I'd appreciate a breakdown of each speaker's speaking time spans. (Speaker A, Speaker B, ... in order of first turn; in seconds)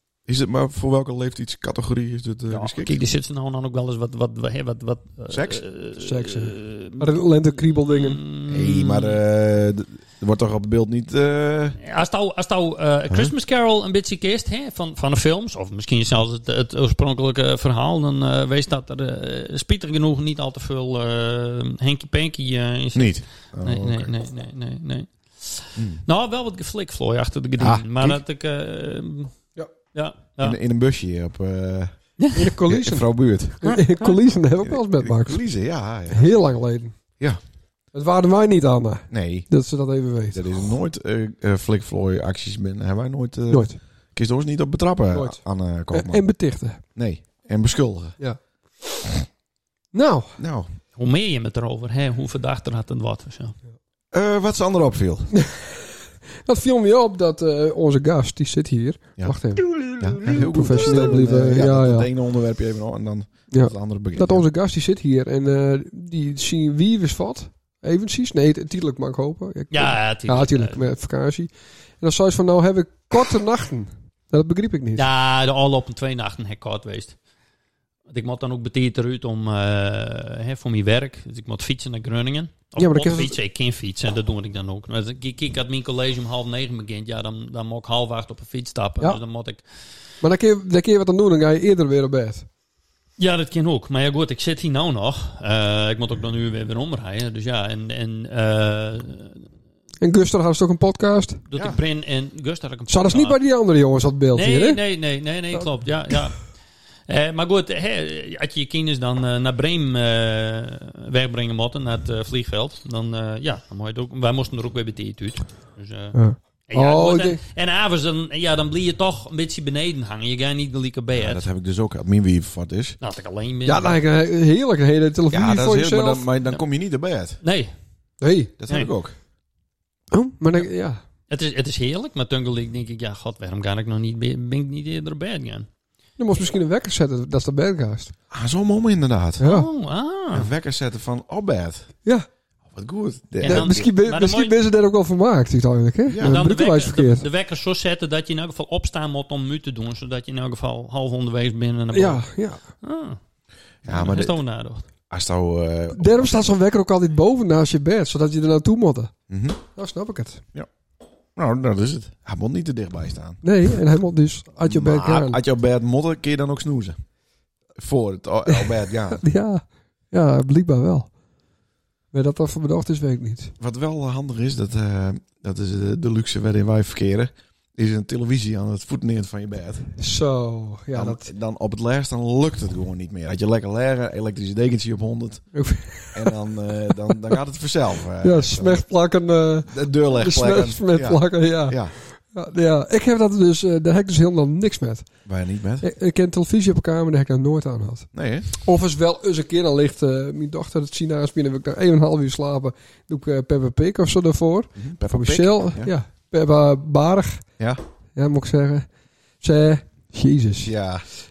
Speaker A: 0.3-3.0, 5.3-5.6, 8.5-11.8, 22.9-24.1, 25.8-26.0, 27.6-28.2, 30.4-33.7, 34.6-36.4, 39.1-39.5, 40.3-46.3, 46.9-48.2, 50.4-50.7, 54.1-55.3, 59.2-64.4, 101.5-101.8, 121.1-123.0, 125.3-127.4, 128.6-129.2, 138.3-139.5, 140.3-141.9, 142.7-143.9, 146.1-146.4, 153.8-154.4, 155.1-156.4, 159.3-159.6, 161.3-163.4, 164.6-167.0, 167.8-169.2, 173.6-179.9, 180.9-185.4, 186.1-188.8, 189.7-191.9, 195.2-195.9, 198.1-198.5, 204.8-205.9, 210.6-211.1
Speaker B: 2.5-9.2, 11.8-29.4, 29.9-30.6, 33.6-34.0, 50.9-53.5, 69.7-70.8, 74.9-77.2, 78.1-89.6, 93.2-99.4, 101.5-103.4, 104.3-106.5, 107.1-121.4, 123.0-124.0, 127.4-127.7, 131.3-135.7, 139.4-140.5, 143.4-144.6, 146.2-152.2, 152.8-153.2, 153.8-154.8
Speaker C: 6.0-8.2, 32.3-35.4, 36.1-37.1, 37.9-40.5, 43.5-43.8, 45.1-46.8, 49.9-50.4, 55.4-55.7, 56.4-62.1, 63.5-75.0, 82.8-83.3, 90.2-92.5, 100.0-101.4, 102.9-104.8, 116.1-117.4, 123.7-126.2, 128.2-128.5, 130.1-131.0, 136.2-138.1, 139.4-139.7, 143.4-147.2, 151.9-152.6, 155.9-159.1, 159.7-160.4, 163.4-165.4, 168.5-171.1, 172.1-173.5, 180.0-181.2, 185.5-186.3, 188.2-195.1, 195.8-207.5, 208.1-210.7